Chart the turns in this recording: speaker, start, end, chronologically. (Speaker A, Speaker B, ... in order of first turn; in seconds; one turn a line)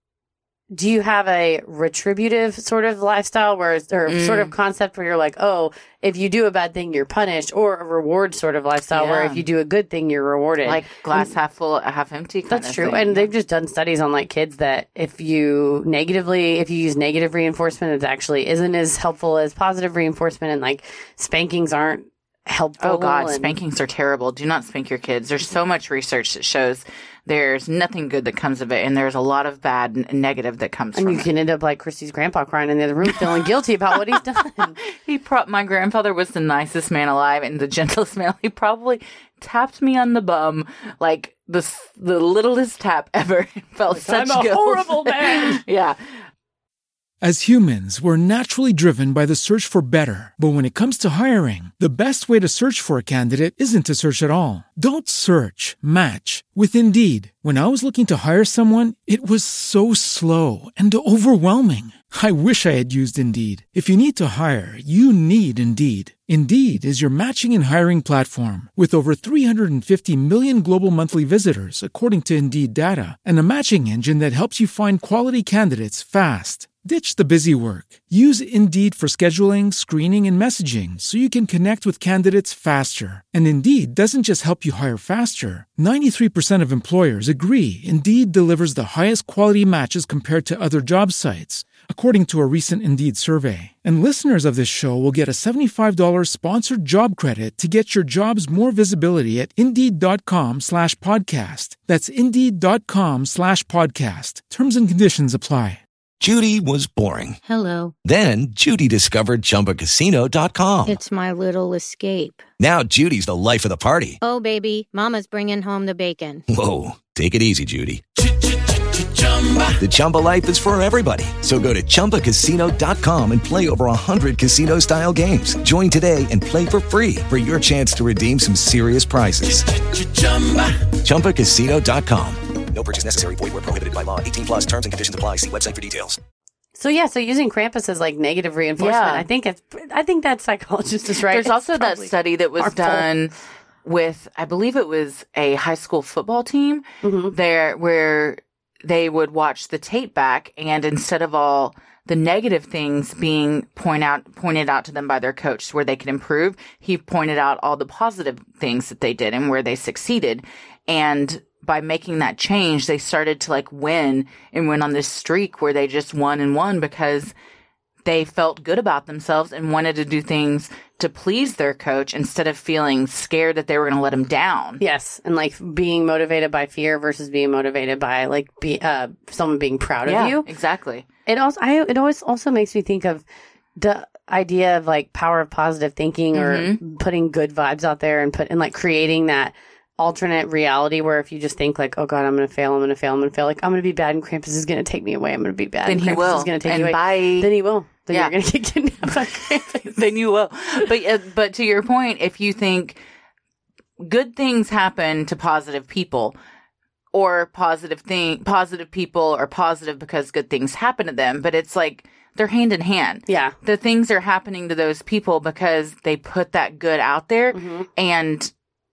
Speaker A: 0.7-11.3
Speaker B: 4.1-4.5
Speaker B: 8.9-9.4
Speaker B: 10.6-13.3
Speaker A: 12.5-23.5
Speaker B: 22.8-31.3
Speaker A: 30.9-34.8
Speaker B: 33.1-33.3
Speaker B: 34.9-46.0
Speaker A: 43.9-45.6
Speaker C: 47.2-105.8
Speaker D: 106.2-107.4
Speaker E: 107.4-107.9
Speaker D: 108.0-111.0
Speaker E: 110.9-112.4
Speaker D: 112.6-114.2
Speaker E: 114.2-116.4
Speaker D: 116.5-118.0
Speaker D: 119.7-136.2
Speaker A: 136.8-143.1
Speaker B: 138.8-139.2
Speaker B: 141.2-143.3
Speaker B: 143.8-167.3
Speaker A: 147.0-147.3
Speaker B: 168.1-174.8
Speaker A: 174.8-180.4
Speaker B: 180.1-181.1
Speaker A: 181.3-183.2
Speaker A: 183.8-199.9
Speaker B: 186.3-186.8
Speaker B: 195.8-197.5
Speaker B: 198.1-198.3
Speaker B: 199.1-203.0
Speaker B: 204.0-206.3
Speaker B: 207.1-218.5
Speaker A: 213.3-213.5
Speaker A: 217.5-217.9